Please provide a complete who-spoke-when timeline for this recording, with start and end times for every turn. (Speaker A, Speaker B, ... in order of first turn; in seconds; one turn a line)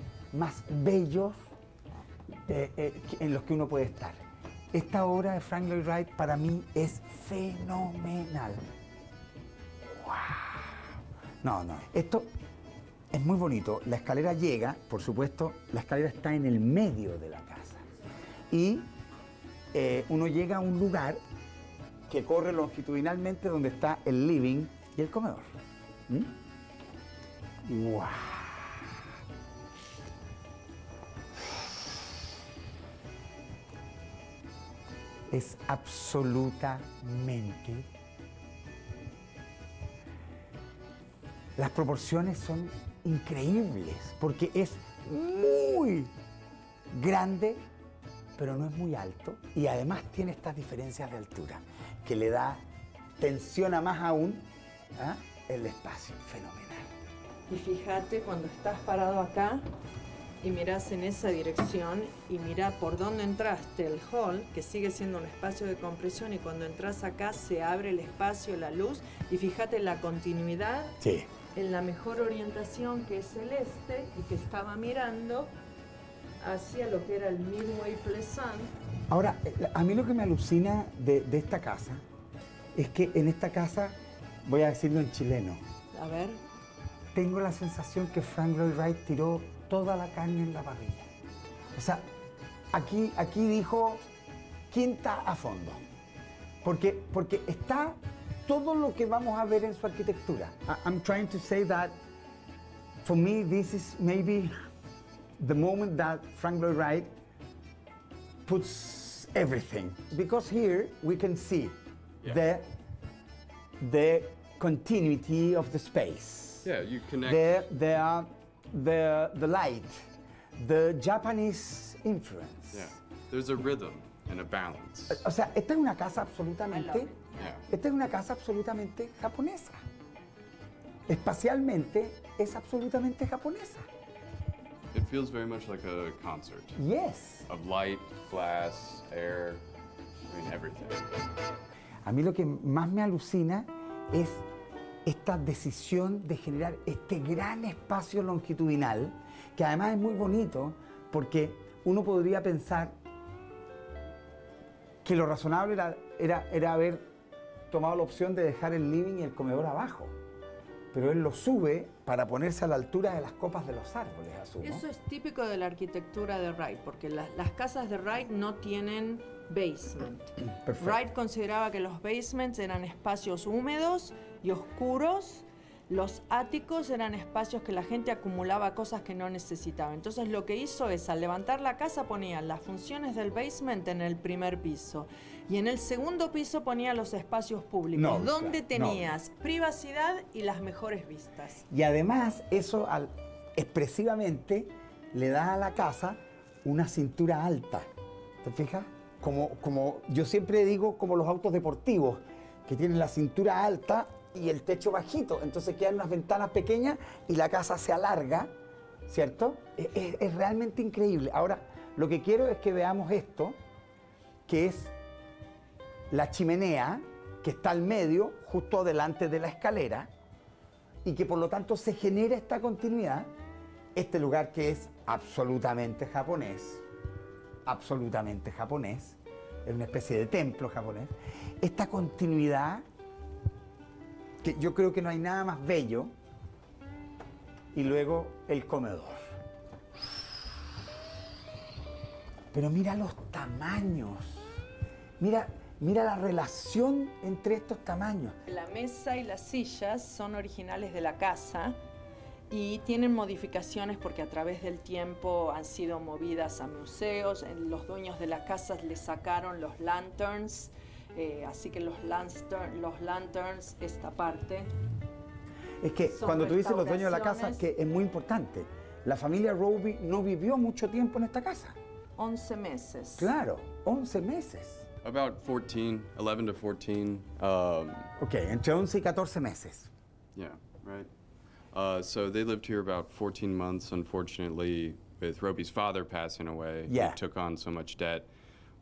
Speaker A: 0.3-1.4
Speaker A: 2.5-4.2
Speaker A: 4.7-8.6
Speaker A: 9.8-12.3
Speaker A: 13.1-17.9
Speaker A: 18.5-18.9
Speaker A: 19.7-21.2
Speaker A: 22.1-25.5
Speaker A: 27.6-28.8
Speaker A: 35.3-37.9
Speaker A: 41.6-46.1
Speaker A: 46.9-47.6
Speaker A: 48.4-52.6
Speaker A: 53.2-54.4
Speaker A: 55.0-56.9
Speaker B: 57.5-59.6
Speaker B: 60.4-71.0
Speaker A: 71.0-71.3
Speaker B: 71.5-75.5
Speaker B: 76.4-78.7
Speaker A: 79.1-82.0
Speaker A: 82.8-85.6
Speaker B: 85.9-86.4
Speaker A: 87.1-91.1
Speaker A: 91.8-92.0
Speaker A: 92.7-94.0
Speaker A: 94.7-95.8
Speaker A: 96.6-102.0
Speaker A: 103.0-104.5
Speaker A: 105.4-107.1
Speaker A: 108.5-112.7
Speaker A: 113.8-116.7
Speaker C: 116.6-117.7
Speaker A: 117.2-122.9
Speaker C: 122.7-125.2
Speaker A: 125.1-127.1
Speaker B: 126.7-127.3
Speaker C: 127.3-127.7
Speaker A: 127.7-129.8
Speaker A: 131.1-133.9
Speaker C: 134.9-136.8
Speaker A: 136.8-137.5
Speaker C: 137.5-139.6
Speaker C: 140.3-141.3
Speaker A: 142.1-144.4
Speaker A: 145.1-153.0
Speaker A: 155.0-157.0
Speaker A: 157.7-160.1
Speaker A: 160.9-164.8
Speaker B: 164.6-191.6
Speaker A: 170.5-171.0
Speaker A: 187.9-189.1
Speaker A: 191.7-197.9
Speaker A: 198.4-208.5
Speaker A: 209.1-213.6
Speaker A: 214.5-214.9
Speaker A: 216.1-220.1
Speaker A: 221.0-223.3
Speaker A: 223.9-226.8
Speaker A: 227.7-232.8
Speaker A: 234.4-236.1
Speaker A: 237.7-239.3
Speaker A: 242.5-244.6
Speaker A: 245.2-248.4
Speaker B: 248.5-251.8
Speaker B: 252.5-264.7
Speaker A: 265.8-271.8
Speaker B: 266.1-267.7
Speaker B: 272.2-273.3
Speaker A: 273.2-274.9
Speaker C: 275.0-278.1
Speaker A: 278.2-279.9
Speaker C: 280.4-281.1
Speaker C: 281.7-288.3
Speaker A: 286.9-287.2